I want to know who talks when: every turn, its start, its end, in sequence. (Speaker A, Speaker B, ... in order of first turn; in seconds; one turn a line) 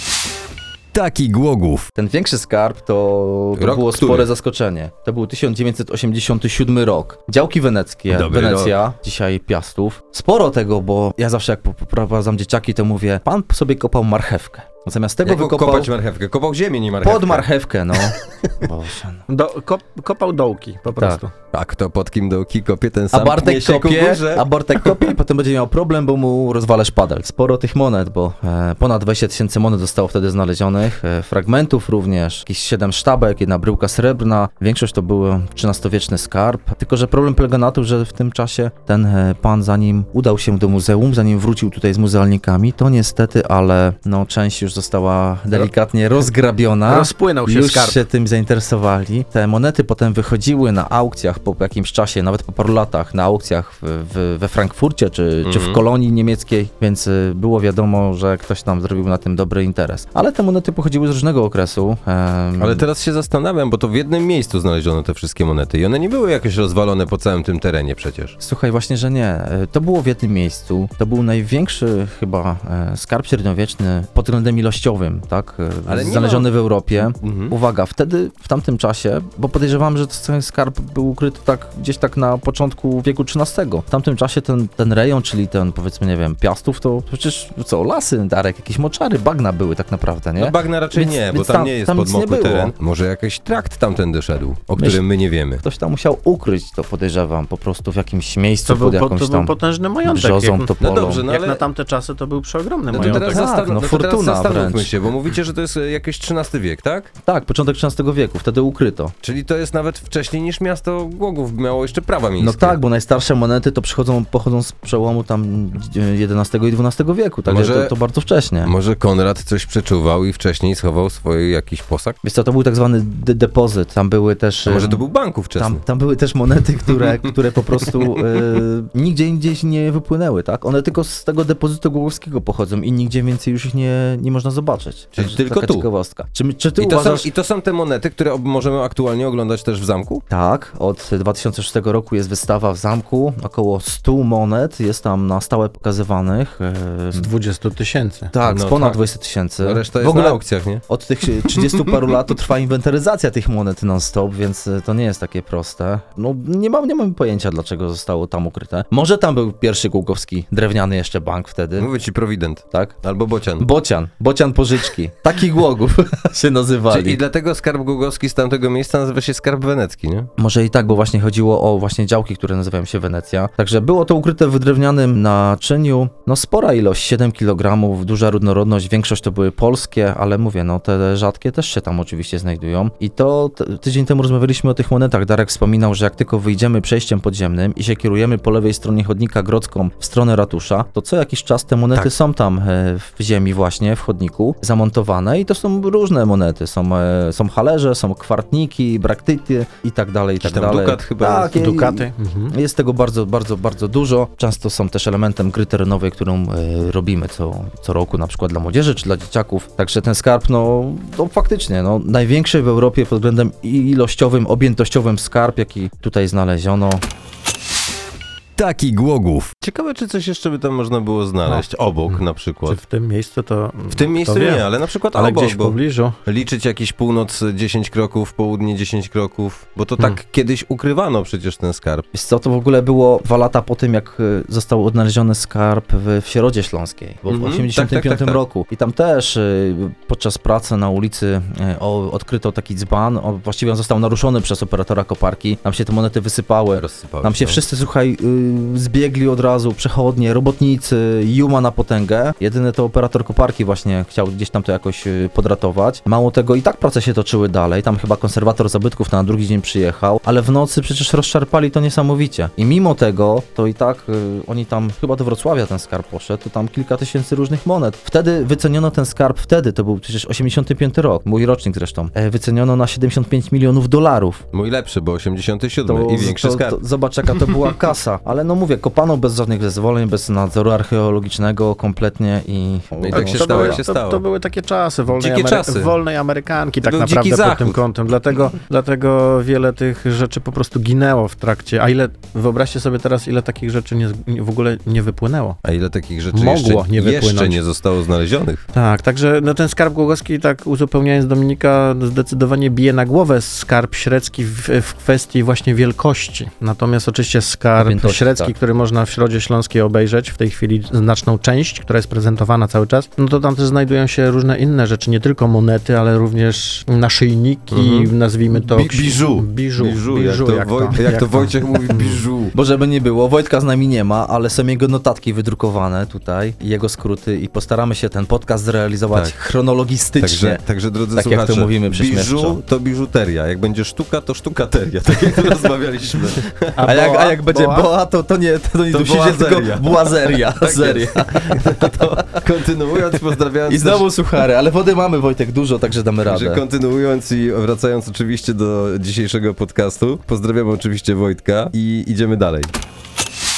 Speaker A: 0.9-1.9
Speaker B: 2.0-15.9
Speaker A: 3.6-4.3
Speaker A: 8.1-8.8
Speaker A: 15.2-17.5
Speaker B: 17.0-19.2
Speaker C: 19.3-21.3
Speaker A: 21.5-25.1
Speaker B: 23.1-62.9
Speaker C: 46.9-48.0
Speaker A: 55.5-55.8
Speaker A: 62.6-68.4
Speaker B: 68.4-92.7
Speaker A: 75.9-76.5
Speaker A: 77.0-77.5
Speaker A: 90.4-95.6
Speaker B: 94.8-95.0
Speaker B: 95.6-101.2
Speaker C: 98.7-100.7
Speaker A: 100.8-101.6
Speaker C: 101.3-103.4
Speaker A: 102.9-107.1
Speaker B: 103.0-105.0
Speaker B: 107.2-109.1
Speaker A: 109.2-112.8
Speaker B: 112.4-118.7
Speaker A: 117.5-117.9
Speaker A: 118.6-122.2
Speaker B: 122.2-125.0
Speaker A: 124.7-125.8
Speaker B: 125.6-137.3
Speaker A: 135.2-135.9
Speaker A: 136.8-140.2
Speaker B: 140.3-147.3
Speaker C: 147.1-148.3
Speaker B: 148.3-161.9
Speaker A: 148.4-149.0
Speaker A: 149.6-150.8
Speaker A: 151.4-152.0
Speaker A: 161.8-163.7
Speaker B: 163.6-167.2
Speaker A: 166.9-170.3
Speaker B: 170.4-217.0
Speaker A: 200.4-201.6
Speaker C: 201.5-202.6
Speaker A: 218.6-222.8
Speaker C: 221.5-226.2
Speaker A: 223.9-232.0
Speaker B: 232.1-274.4
Speaker A: 237.3-238.4
Speaker A: 246.8-247.6
Speaker A: 274.5-277.8
Speaker B: 275.9-283.8
Speaker A: 283.0-284.2
Speaker C: 283.1-295.6
Speaker A: 285.1-286.0
Speaker A: 286.8-287.8
Speaker A: 295.6-298.6
Speaker C: 296.3-297.6
Speaker C: 298.7-322.3
Speaker B: 307.8-308.5
Speaker A: 317.7-322.5
Speaker B: 322.5-330.6
Speaker A: 330.2-336.8
Speaker B: 331.1-332.6
Speaker C: 336.8-337.9
Speaker B: 336.8-342.4
Speaker A: 338.9-344.1
Speaker B: 343.7-346.6
Speaker A: 346.3-352.7